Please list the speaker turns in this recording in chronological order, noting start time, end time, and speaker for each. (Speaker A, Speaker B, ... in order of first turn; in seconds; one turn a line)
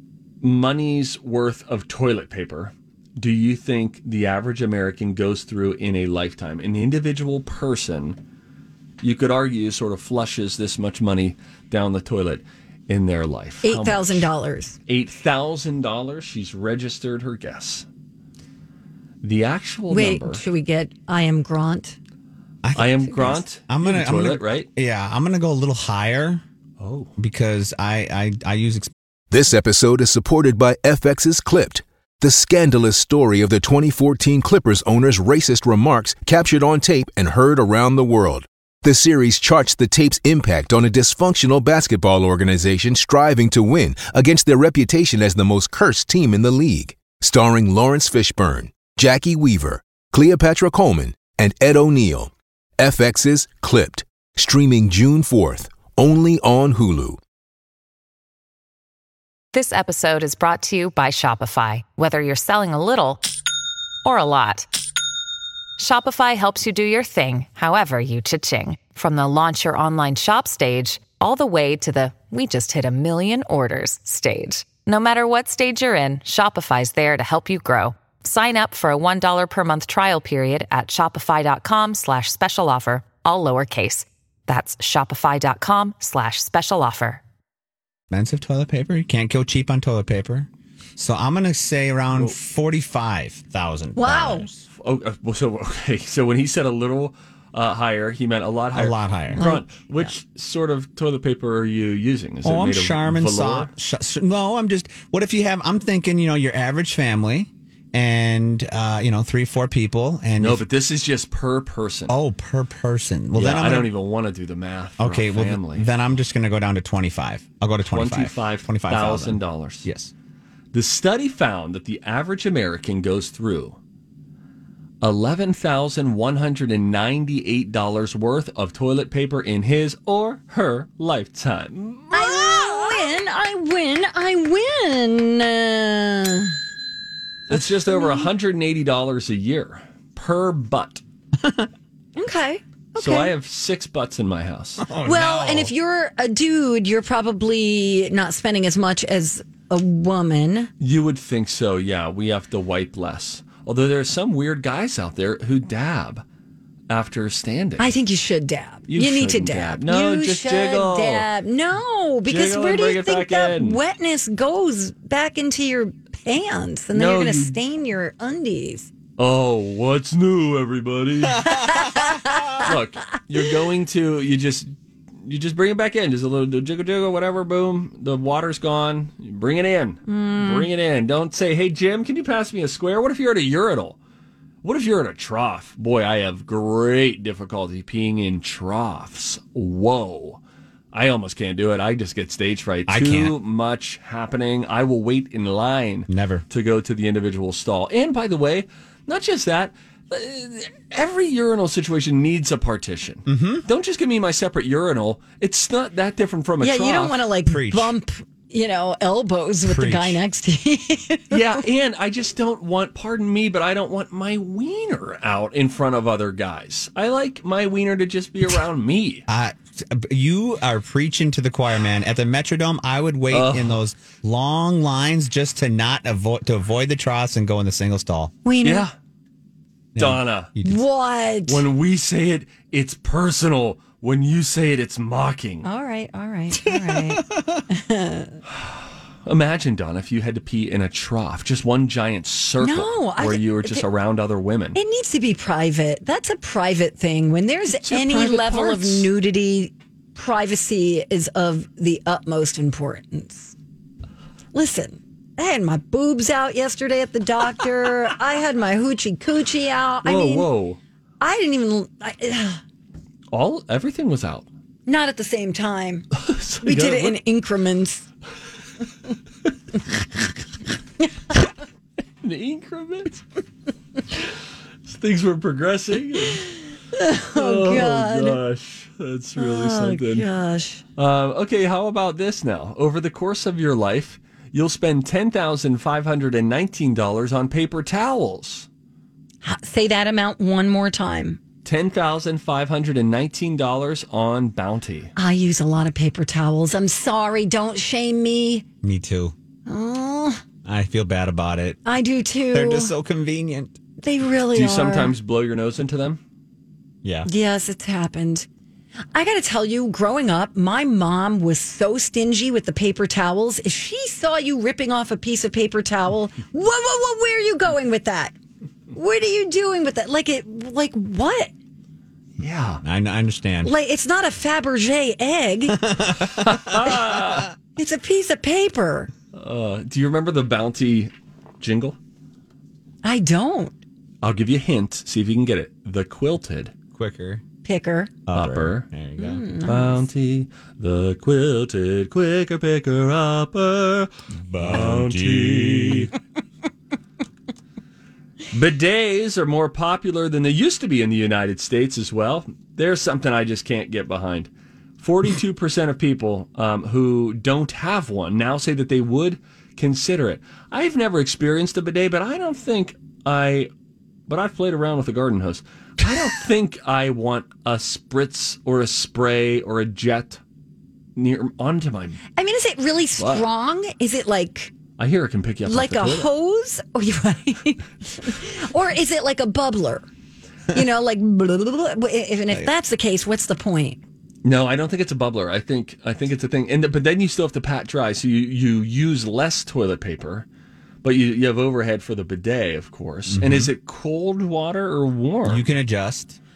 Speaker A: 0.4-8.2
Speaker A: 9.0-14.3
Speaker B: 13.6-14.8
Speaker A: 14.9-17.8
Speaker A: 19.2-20.4
Speaker B: 19.9-22.0
Speaker C: 22.6-26.4
Speaker A: 22.7-24.7
Speaker A: 26.8-27.1
Speaker C: 27.2-28.9
Speaker D: 29.3-57.2
Speaker E: 59.5-63.2
Speaker E: 64.0-64.7
Speaker E: 65.8-87.2
Speaker C: 88.1-94.6
Speaker B: 94.0-94.5
Speaker A: 94.7-103.7
Speaker C: 98.7-99.4
Speaker B: 99.3-100.1
Speaker C: 102.4-110.6
Speaker A: 110.4-112.1
Speaker C: 112.1-113.9
Speaker A: 113.3-115.9
Speaker C: 115.0-120.1
Speaker A: 117.9-119.9
Speaker A: 120.7-123.8
Speaker A: 125.0-133.0
Speaker B: 132.1-136.5
Speaker A: 137.5-141.0
Speaker B: 137.9-138.3
Speaker B: 142.2-143.3
Speaker A: 142.9-144.8
Speaker C: 144.8-145.7
Speaker B: 145.0-150.7
Speaker A: 150.8-156.2
Speaker A: 156.9-157.9
Speaker B: 157.8-168.9
Speaker A: 158.9-161.2
Speaker A: 162.2-163.8
Speaker A: 166.9-167.6
Speaker A: 169.2-172.0
Speaker B: 171.5-172.6
Speaker A: 172.6-184.0
Speaker B: 180.1-180.7
Speaker A: 184.6-190.4
Speaker A: 190.9-207.2
Speaker C: 192.9-193.3
Speaker C: 196.1-196.4
Speaker C: 203.2-203.6
Speaker B: 206.6-211.6
Speaker C: 207.4-207.9
Speaker C: 209.6-210.2
Speaker A: 211.3-219.2
Speaker C: 219.3-228.3
Speaker A: 223.3-223.8
Speaker B: 228.4-228.9
Speaker A: 228.6-228.9
Speaker C: 229.9-230.8
Speaker A: 230.0-230.5
Speaker B: 230.6-231.6
Speaker A: 231.5-235.7
Speaker B: 235.6-238.3
Speaker C: 236.5-237.6
Speaker A: 238.5-244.8
Speaker B: 242.6-243.8
Speaker B: 244.7-253.5
Speaker A: 247.8-249.1
Speaker B: 254.5-260.5
Speaker A: 260.0-260.8
Speaker B: 261.2-262.6
Speaker A: 263.3-264.4
Speaker B: 264.9-266.1
Speaker A: 266.1-267.2
Speaker B: 266.6-268.0
Speaker A: 272.2-273.2
Speaker A: 274.9-276.5
Speaker B: 276.9-278.4
Speaker A: 277.3-280.3
Speaker B: 279.4-280.8
Speaker A: 281.0-288.7
Speaker B: 289.4-291.4
Speaker A: 291.6-295.1
Speaker B: 295.1-298.6
Speaker C: 298.8-299.3
Speaker B: 299.7-300.4
Speaker C: 300.6-301.8
Speaker B: 301.8-302.9
Speaker C: 302.5-303.8
Speaker B: 304.0-305.1
Speaker A: 304.5-306.2
Speaker B: 307.2-308.5
Speaker B: 309.1-318.3
Speaker B: 318.9-321.5
Speaker A: 322.4-322.8
Speaker C: 322.8-323.7
Speaker B: 323.6-325.8
Speaker C: 325.8-326.9
Speaker A: 326.4-327.5
Speaker B: 327.8-329.1
Speaker A: 329.3-332.0
Speaker B: 333.0-333.8
Speaker A: 334.2-336.7
Speaker C: 336.9-337.4
Speaker B: 337.6-338.1
Speaker C: 338.3-339.4
Speaker A: 338.3-338.9
Speaker B: 339.2-340.0
Speaker A: 339.6-344.1
Speaker C: 344.4-346.1
Speaker A: 344.6-346.1
Speaker A: 348.5-363.7
Speaker A: 364.3-370.4
Speaker A: 371.1-372.2
Speaker B: 372.4-374.7
Speaker A: 373.2-373.4
Speaker A: 375.0-376.3
Speaker B: 375.6-380.1
Speaker B: 380.7-384.0
Speaker A: 384.4-390.4
Speaker A: 391.0-395.6
Speaker C: 393.3-393.7
Speaker C: 395.4-396.4